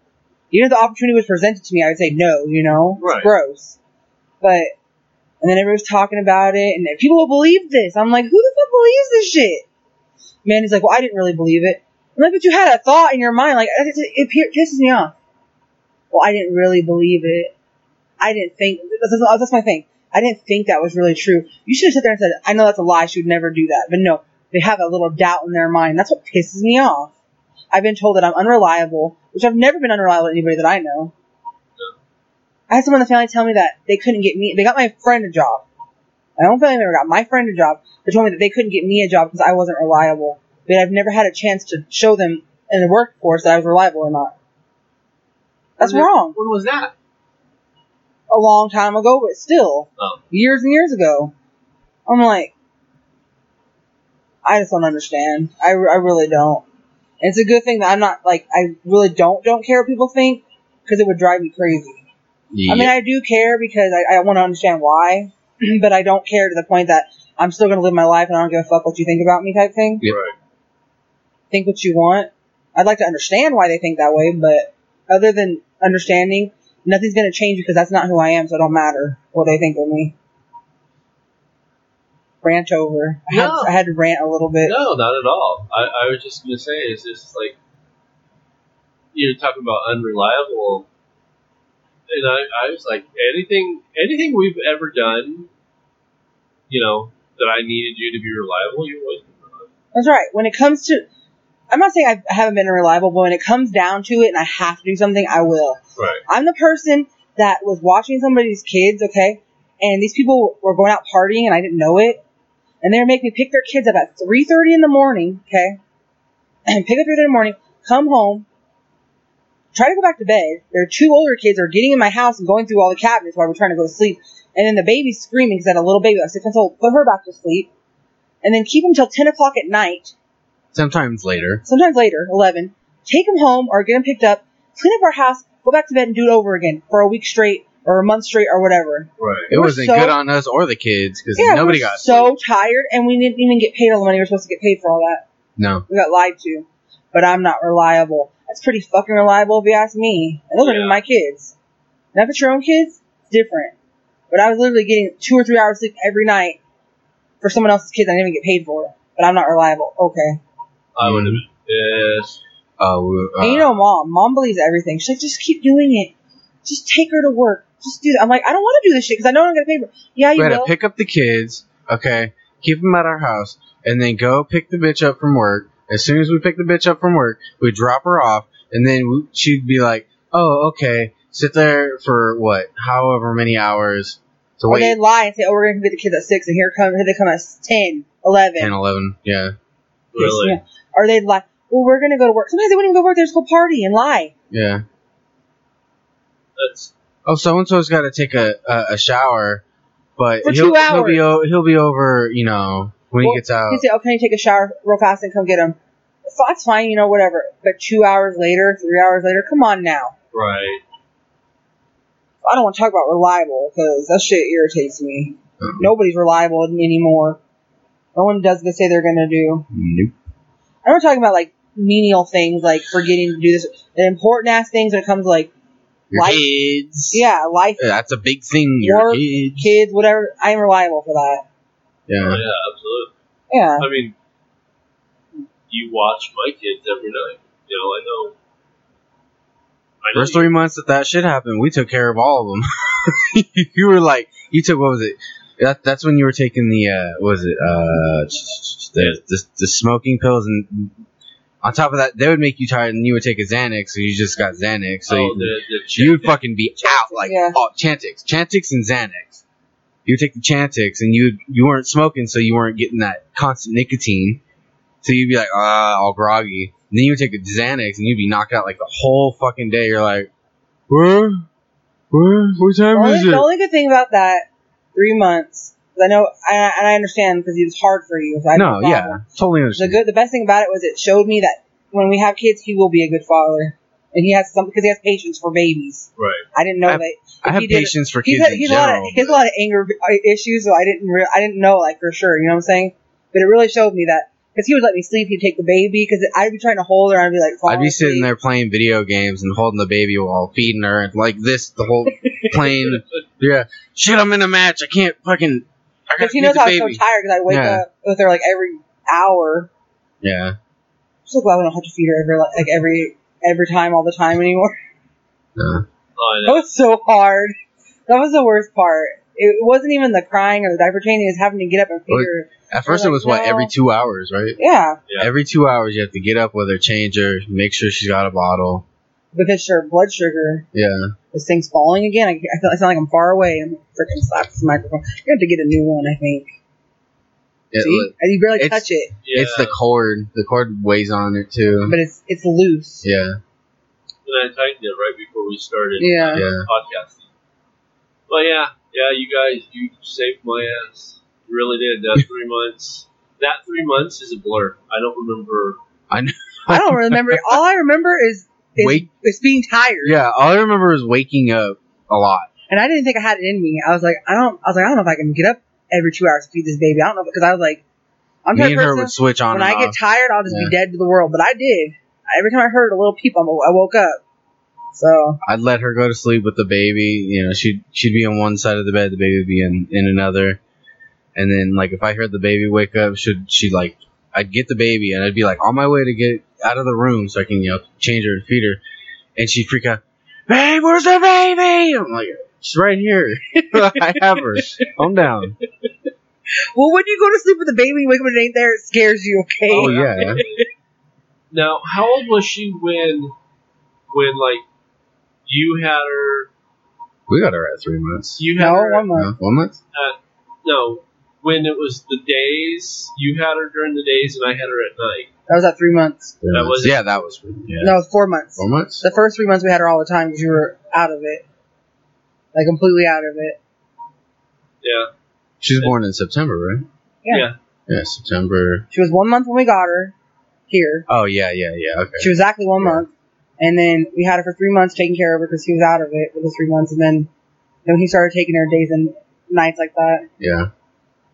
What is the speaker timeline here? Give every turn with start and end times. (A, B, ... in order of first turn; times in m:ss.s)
0:00.5-0:03.8 A
0:03.0-0:03.3 B
0:04.4-0:04.7 A
0:05.4-0:09.6 A
0:10.4-0:15.1 A
0:16.1-0:17.5 A
0:18.2-0:27.1 A
0:27.7-0:31.1 A
0:32.7-0:35.6 A
0:36.4-0:44.3 A
0:45.8-0:46.4 A
0:45.8-0:46.9 B
0:48.3-0:51.3 A
0:52.1-0:52.5 A
0:54.4-0:56.6 A
0:57.2-1:02.0 A
1:02.5-1:02.9 C
1:02.7-1:10.0 A
1:10.0-1:10.3 B
1:11.5-1:20.1 A
1:22.4-1:24.7 A
1:23.3-1:23.7 B
1:24.6-1:27.6 B
1:29.1-1:30.9 B
1:32.1-1:35.5 B
1:36.7-1:39.7 B
1:39.9-1:41.0 A
1:41.7-1:52.2 A
1:46.0-1:46.2 B
1:52.8-1:55.8 A
1:56.7-1:58.4 A
1:59.7-2:07.7 A
2:08.4-2:10.1 A
2:10.7-2:11.6 C
2:11.6-2:20.2 A
2:19.2-2:19.5 B
2:19.5-2:22.3 C
2:21.4-2:25.2 A
2:25.6-2:25.8 C
2:25.9-2:31.5 A
2:30.6-2:31.0 B
2:32.1-2:33.7 A
2:34.3-2:36.6 A
2:37.4-2:40.4 A
2:41.0-2:42.4 B
2:41.0-2:41.4 C
2:42.8-2:43.8 C
2:43.4-2:46.1 A
2:46.6-2:50.7 A
2:50.4-3:05.0 C
3:04.7-3:08.7 A
3:08.6-3:09.5 C
3:10.1-3:10.6 B
3:10.2-3:14.3 A
3:14.5-3:14.8 C
3:16.6-3:16.9 B
3:17.2-3:19.6 C
3:20.2-3:23.8 C
3:20.4-3:21.3 A
3:23.2-3:30.1 A
3:30.3-3:30.8 B
3:32.4-3:37.4 A
3:35.6-3:35.9 C
3:38.1-3:39.7 A
3:39.7-3:40.1 C
3:40.8-3:45.5 A
3:46.1-3:47.2 C
3:46.1-3:46.4 A
3:47.1-3:47.8 A
3:47.8-3:49.7 C
3:48.8-3:51.4 A
3:52.1-3:52.4 C
3:52.2-3:53.1 B
3:53.5-3:53.9 A
3:53.8-3:54.1 B
3:55.7-3:58.3 B
4:00.0-4:00.5 B
4:00.1-4:11.0 C
4:11.6-4:19.4 C
4:15.1-4:16.4 B
4:16.8-4:17.6 A
4:20.0-4:24.4 C
4:25.0-4:30.3 C
4:30.9-4:31.4 C
4:32.1-4:33.4 C
4:32.9-4:39.2 A
4:38.5-4:40.0 C
4:39.7-4:58.3 A
4:46.2-4:46.4 B
4:46.9-4:49.4 C
4:57.7-5:07.8 C
5:06.2-5:09.7 A
5:10.2-5:10.6 C
5:11.2-5:14.8 A
5:15.6-5:15.8 C
5:16.2-5:16.6 B
5:16.4-5:17.6 A
5:18.1-5:23.7 A
5:22.1-5:24.6 C
5:24.6-5:25.0 A
5:25.2-5:28.8 C
5:29.3-5:30.6 A
5:30.7-5:31.1 C
5:31.3-5:36.5 A
5:37.7-5:42.0 C
5:37.8-5:39.1 A
5:39.2-5:39.8 B
5:41.8-5:43.0 A
5:43.0-5:43.4 C
5:44.2-5:47.2 B
5:46.0-5:46.4 A
5:46.3-5:46.7 C
5:48.3-5:55.8 B
5:56.1-5:57.6 C
5:56.7-6:00.2 A
5:58.8-5:59.0 C
6:00.0-6:02.5 C
6:02.7-6:07.8 A
6:08.4-6:14.2 A
6:08.5-6:10.7 C
6:14.9-6:15.4 A
6:15.4-6:20.6 C
6:21.4-6:28.8 C
6:29.4-6:35.6 C
6:33.5-6:34.9 A
6:36.7-6:40.6 A
6:39.7-6:40.7 B
6:39.8-6:40.4 C
6:41.5-6:43.3 B
6:44.1-6:44.6 B
6:45.4-6:46.5 B
6:47.3-6:48.4 C
6:48.4-6:49.0 B
6:48.6-6:49.3 A
6:49.1-6:49.8 C
6:49.9-6:55.3 B
6:55.5-6:56.3 A
6:56.4-6:58.0 C
6:56.5-6:57.3 B
6:57.8-7:01.4 A
6:58.6-6:59.0 C
7:02.5-7:03.6 A
7:04.8-7:05.1 B
7:05.6-7:06.8 C
7:07.3-7:07.5 B
7:07.9-7:08.8 C
7:08.9-7:10.1 A
7:10.7-7:11.0 A
7:11.1-7:13.0 C
7:12.2-7:17.3 A
7:17.8-7:20.3 A
7:20.4-7:20.7 C